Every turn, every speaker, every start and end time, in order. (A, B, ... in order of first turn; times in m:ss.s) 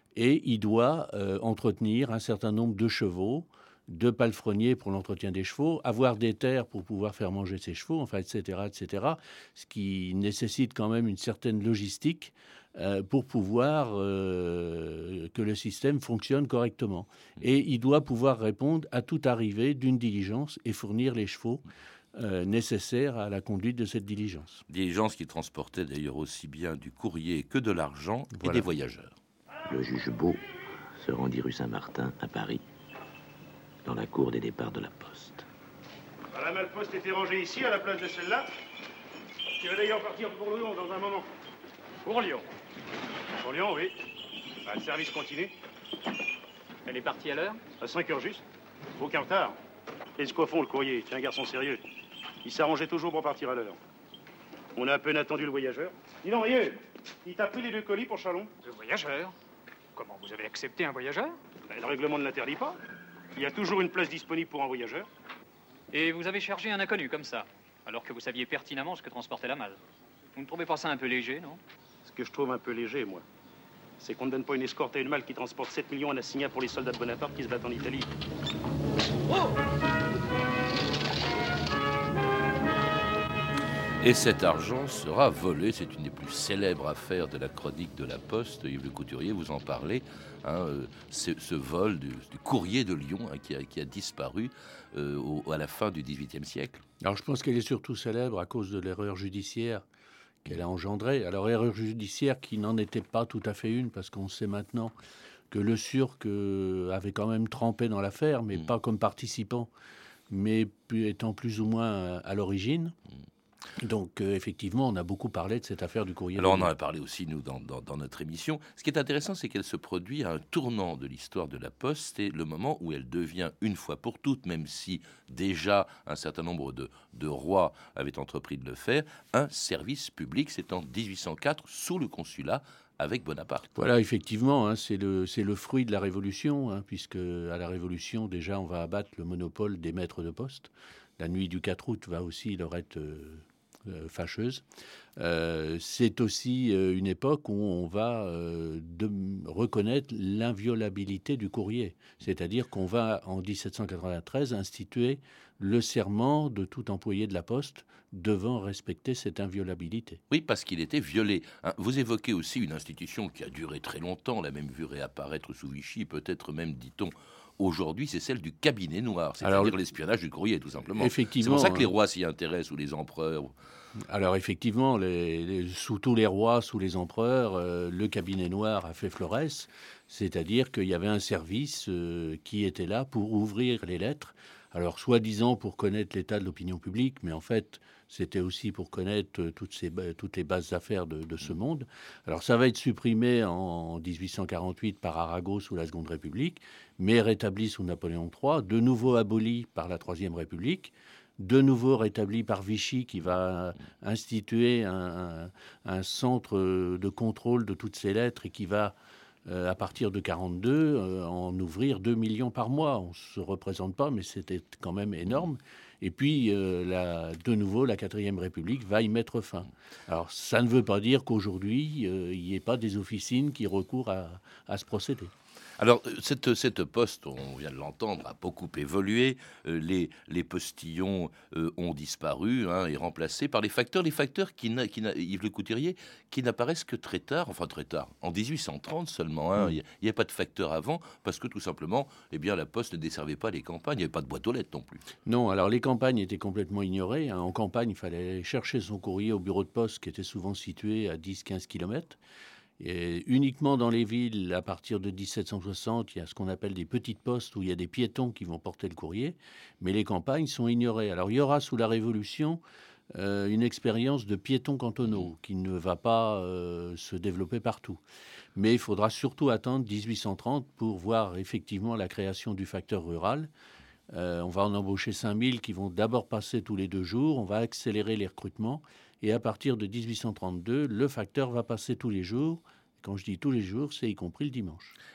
0:00.1-0:24.6 A
0:24.7-0:29.1 B
0:28.3-0:28.6 A
0:29.7-0:30.4 C
0:31.0-0:32.6 C
0:33.8-0:35.4 C
0:36.3-0:38.5 D
0:39.6-0:41.3 D
0:42.0-0:42.4 D
0:43.4-0:44.0 D
0:44.6-0:45.5 D
0:46.9-0:47.6 E
0:47.8-0:48.4 D
0:49.0-0:49.6 D
0:50.2-0:51.8 D
0:52.4-0:53.8 D
0:54.8-0:58.5 D
0:58.6-0:59.3 E
0:59.9-1:01.4 E
1:01.7-1:02.8 D
1:03.3-1:05.1 D
1:05.9-1:09.8 E
1:10.4-1:11.6 E
1:12.0-1:13.2 D
1:14.0-1:18.1 D
1:24.0-1:36.8 B
1:37.0-1:39.8 A
1:40.4-1:44.9 A
1:45.5-1:49.7 A
1:50.3-1:52.9 A
1:53.8-1:56.7 A
1:56.4-2:13.7 B
2:13.8-2:24.6 A
2:25.2-2:40.2 A
2:40.3-2:53.5 B
2:49.4-2:49.8 A
2:51.0-2:51.9 A
2:54.1-3:28.9 A
3:29.4-3:45.3 A
3:45.8-4:05.0 B
4:05.2-4:12.2 A
4:12.8-4:22.6 A
4:23.1-4:28.0 A
4:28.6-4:33.5 A
4:34.1-4:44.9 A